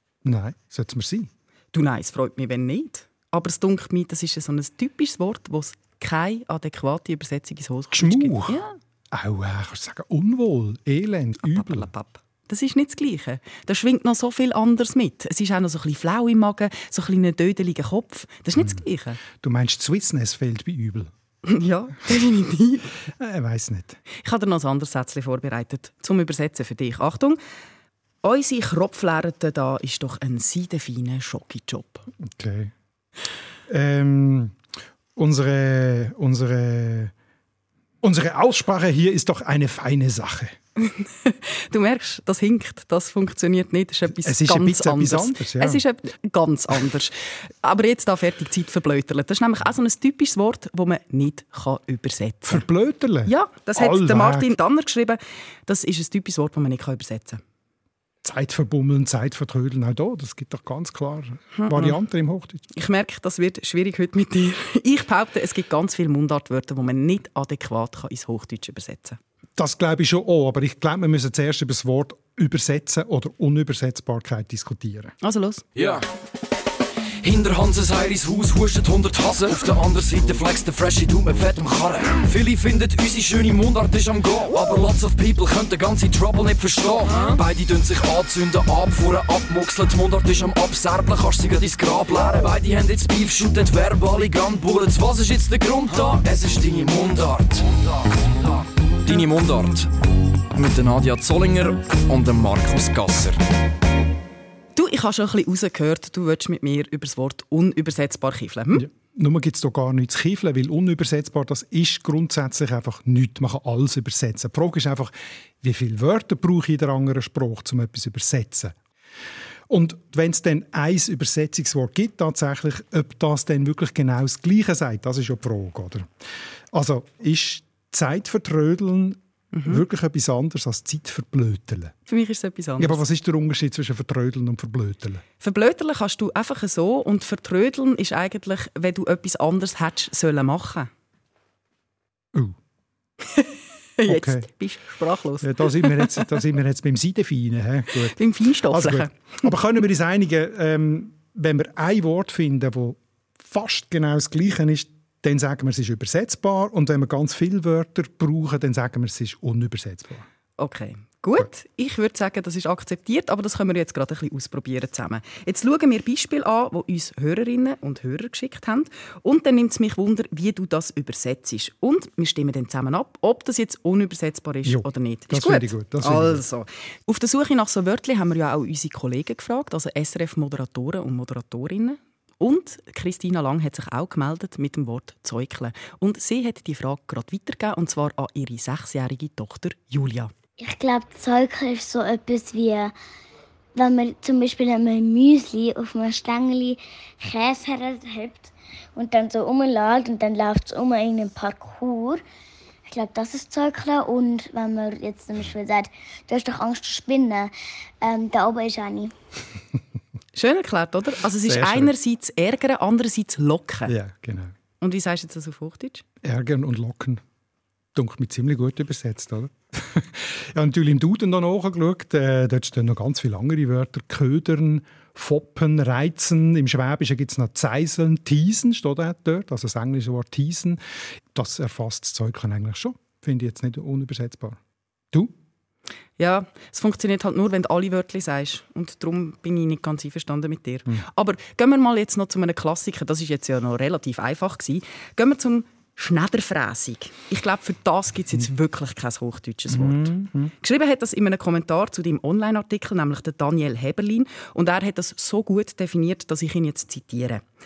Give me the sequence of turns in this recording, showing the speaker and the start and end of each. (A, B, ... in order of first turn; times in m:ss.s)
0:00.2-0:01.3 A
0:01.7-0:08.8 B
0:07.9-0:08.6 A
0:09.1-0:11.9 A
0:11.4-0:19.2 B
0:19.3-0:21.1 A
0:21.5-0:23.0 B
0:23.2-0:24.0 A
0:24.1-0:27.4 B
0:28.2-0:32.1 B
0:32.2-0:32.7 A
0:33.7-0:34.6 A
0:35.2-0:37.1 A
0:38.0-0:40.6 A
0:40.8-0:52.6 B
0:44.1-0:45.8 A
0:52.5-0:54.5 A
0:53.3-0:57.4 B
0:58.2-1:02.6 A
1:01.6-1:02.0 B
1:02.7-1:09.2 B
1:09.6-1:15.2 A
1:15.2-1:15.6 B
1:15.8-1:16.0 C
1:17.2-1:39.9 C
1:40.5-1:43.4 C
1:44.8-1:48.8 B
1:48.7-1:58.8 A
1:59.7-2:06.1 A
2:06.7-2:11.9 A
2:09.5-2:09.8 B
2:12.1-2:13.0 B
2:12.8-2:15.2 A
2:15.4-2:20.9 B
2:23.3-2:26.3 B
2:24.1-2:24.5 A
2:25.4-2:40.3 A
2:28.0-2:29.1 B
2:40.6-3:10.3 B
2:54.6-2:56.4 A
3:10.6-3:13.0 D
3:13.8-3:22.2 D
3:22.9-3:29.1 D
3:30.4-3:33.9 B
3:31.4-3:31.9 A
3:33.9-3:34.5 A
3:34.8-3:36.0 B
3:36.2-3:37.2 A
3:38.0-3:50.8 A
3:51.3-3:54.6 A
3:56.2-4:17.4 B
4:09.7-4:10.5 A